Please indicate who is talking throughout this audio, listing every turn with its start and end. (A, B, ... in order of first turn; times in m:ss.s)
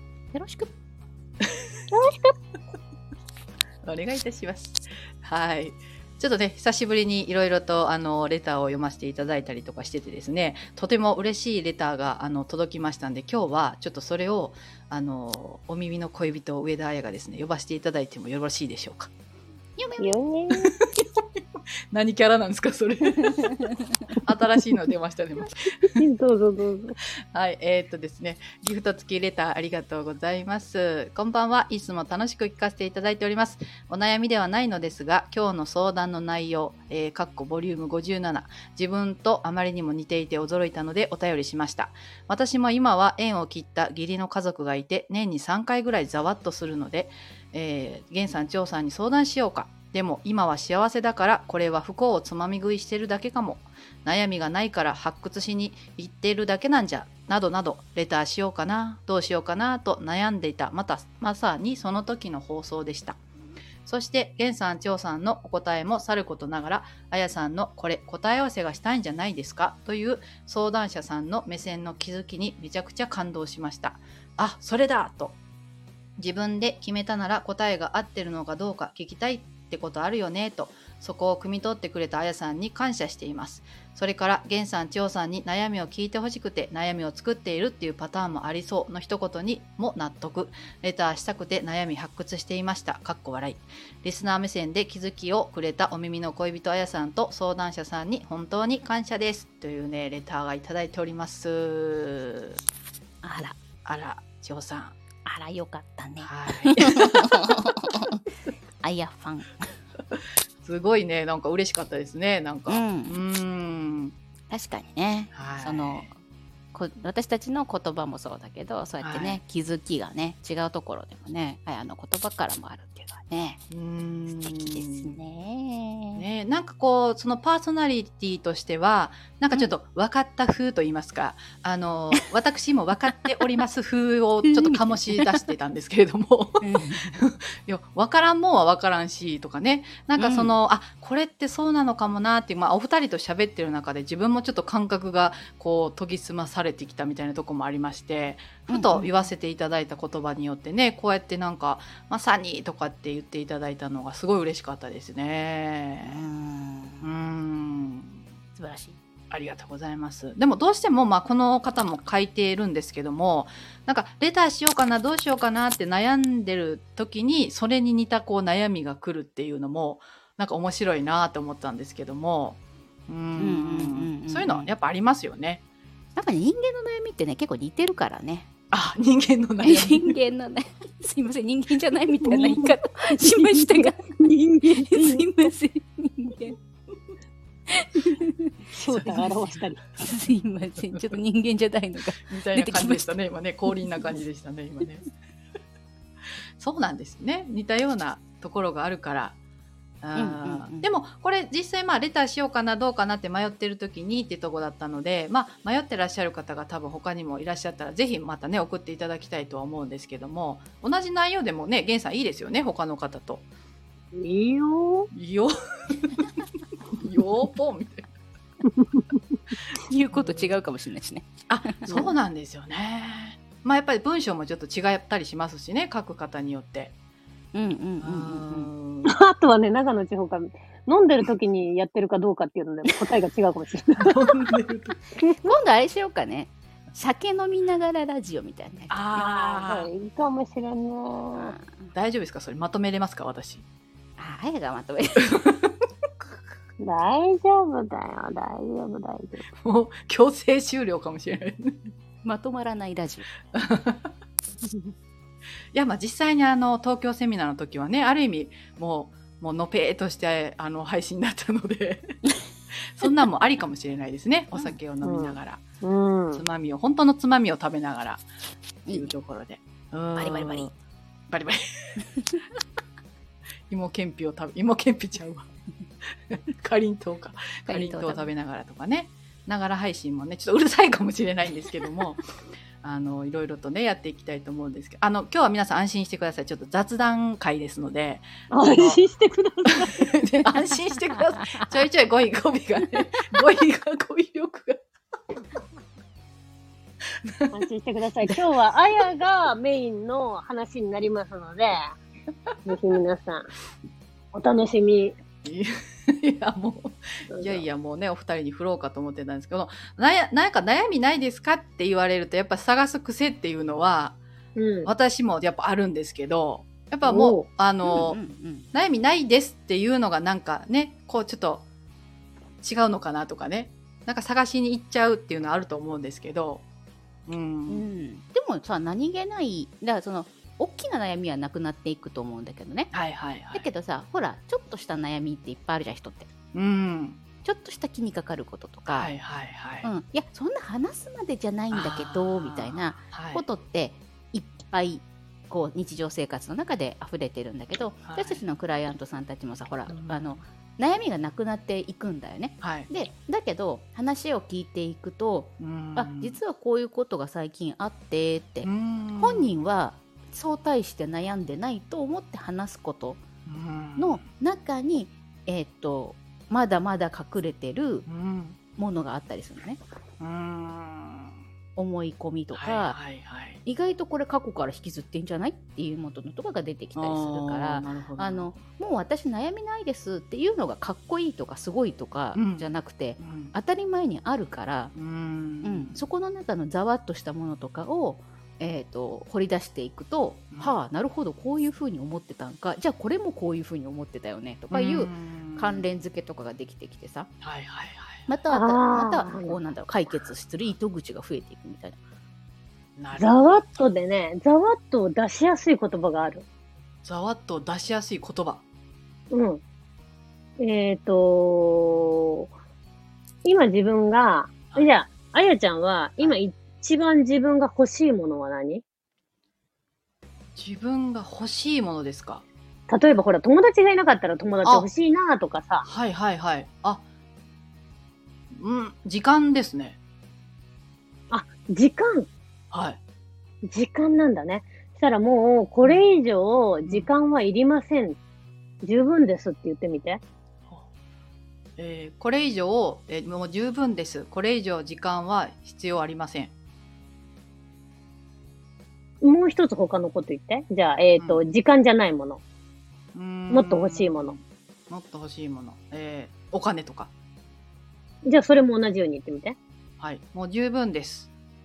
0:00.3-0:00.7 A
0:01.9-0:02.4 B
0:03.8-0:19.1 C
0:19.8-0:20.2 A
0:20.0-0:20.7 B
0:20.6-0:21.2 C
0:21.9-0:23.7 C
0:24.2-0:25.8 C
0:26.0-0:27.0 B
0:27.3-1:03.2 C
1:03.8-1:15.4 C
1:16.2-1:42.6 C
1:43.2-1:43.6 A
1:43.8-1:45.0 C
1:45.3-1:48.2 A
1:46.2-1:47.6 C
1:48.8-1:49.7 A
1:50.6-1:54.2 C
1:52.7-1:53.2 A
1:54.5-1:56.2 A
1:55.3-1:56.1 C
1:56.7-2:03.6 A
1:59.0-1:59.4 C
2:03.7-2:05.1 C
2:04.3-2:06.2 A
2:06.2-2:36.2 C
2:14.6-2:15.2 A
2:16.6-2:17.1 A
2:20.2-2:20.6 A
2:28.7-2:29.3 A
2:36.0-2:37.1 A
2:37.0-2:38.2 C
2:38.6-2:39.0 A
2:39.3-2:55.6 C
2:53.4-2:54.7 A
2:56.2-2:58.5 A
2:58.7-3:00.2 C
2:59.6-3:04.1 A
3:02.2-3:02.7 C
3:03.2-3:05.3 B
3:04.7-3:06.6 A
3:07.7-3:08.5 A
3:08.7-3:09.8 B
3:08.9-3:09.6 C
3:10.0-3:13.1 A
3:10.8-3:11.2 C
3:12.3-3:15.1 C
3:16.6-3:19.4 C
3:20.0-3:33.4 C
3:20.2-3:20.9 A
3:34.1-3:35.1 B
3:35.1-3:36.2 C
3:37.0-3:38.1 C
3:39.8-3:42.1 A
3:40.1-3:40.6 C
3:41.5-3:46.9 C
3:47.5-3:48.7 A
3:48.0-3:49.2 C
3:49.0-3:54.1 B
3:54.0-3:55.0 C
3:55.2-3:55.5 B
3:55.4-3:58.9 A
3:58.9-3:59.9 C
3:59.1-4:01.6 B
4:01.4-4:01.9 A
4:01.9-4:03.6 C
4:04.2-4:05.5 A
4:06.8-4:09.5 B
4:09.6-4:11.8 C
4:12.2-4:13.3 A
4:13.5-4:14.1 C
4:15.7-4:22.1 C
4:23.0-4:25.6 C
4:24.5-4:24.8 A
4:25.0-4:26.4 B
4:26.3-4:28.3 C
4:28.9-4:29.1 A
4:28.9-4:30.7 C
4:30.2-4:30.7 A
4:31.3-4:32.0 C
4:33.7-4:35.5 C
4:36.3-4:42.2 C
4:37.7-4:38.3 A
4:42.8-4:49.0 C
4:48.5-4:50.1 B
4:49.8-4:54.8 C
4:57.3-4:57.6 C
4:57.5-5:02.0 B
5:02.6-5:03.5 B
5:04.3-5:05.2 B
5:05.4-5:14.2 C
5:07.3-5:07.7 B
5:14.6-5:14.9 B
5:14.9-5:18.2 C
5:17.0-5:17.5 B
5:17.8-5:18.7 A
5:18.7-5:21.6 C
5:22.6-5:26.6 C
5:27.3-5:27.9 C
5:27.7-5:32.9 A
5:32.9-5:33.7 C
5:33.5-5:36.3 A
5:36.5-5:37.2 C
5:37.4-5:39.1 A
5:38.9-5:39.9 C
5:39.8-6:03.2 A
5:41.7-5:43.4 C
5:48.1-5:48.4 C
5:49.9-5:50.4 C
5:52.6-5:52.9 C
5:55.6-5:56.4 C
5:58.6-5:59.5 C
6:03.5-6:04.3 C
6:04.0-6:08.1 A
6:08.1-6:08.6 C
6:08.8-6:09.8 A
6:10.2-6:11.3 C
6:11.8-6:13.0 A
6:12.5-6:13.6 C
6:13.7-6:24.9 A
6:17.0-6:18.6 C
6:22.4-6:23.5 C
6:25.0-6:26.0 C
6:25.6-6:37.3 A
6:34.7-6:35.8 C
6:37.4-6:38.3 C
6:38.3-6:42.0 A
6:38.5-6:39.6 B
6:43.0-6:43.9 C
6:43.2-6:46.4 B
6:47.0-6:48.6 C
6:49.3-6:49.6 B
6:50.6-6:52.5 B
6:53.4-6:58.8 B
7:00.6-7:02.4 C
7:02.9-7:05.9 B
7:04.6-7:04.9 C
7:05.8-7:07.0 C
7:08.5-7:10.0 C
7:11.3-7:12.3 B
7:12.7-7:13.0 C
7:13.6-7:18.2 B
7:16.9-7:17.1 C
7:18.8-7:20.2 B
7:21.8-7:26.5 C
7:29.2-7:32.4 B
7:31.2-7:31.4 C
7:33.2-7:37.1 C
7:33.5-7:34.4 B
7:38.2-7:39.6 B
7:40.0-7:41.3 C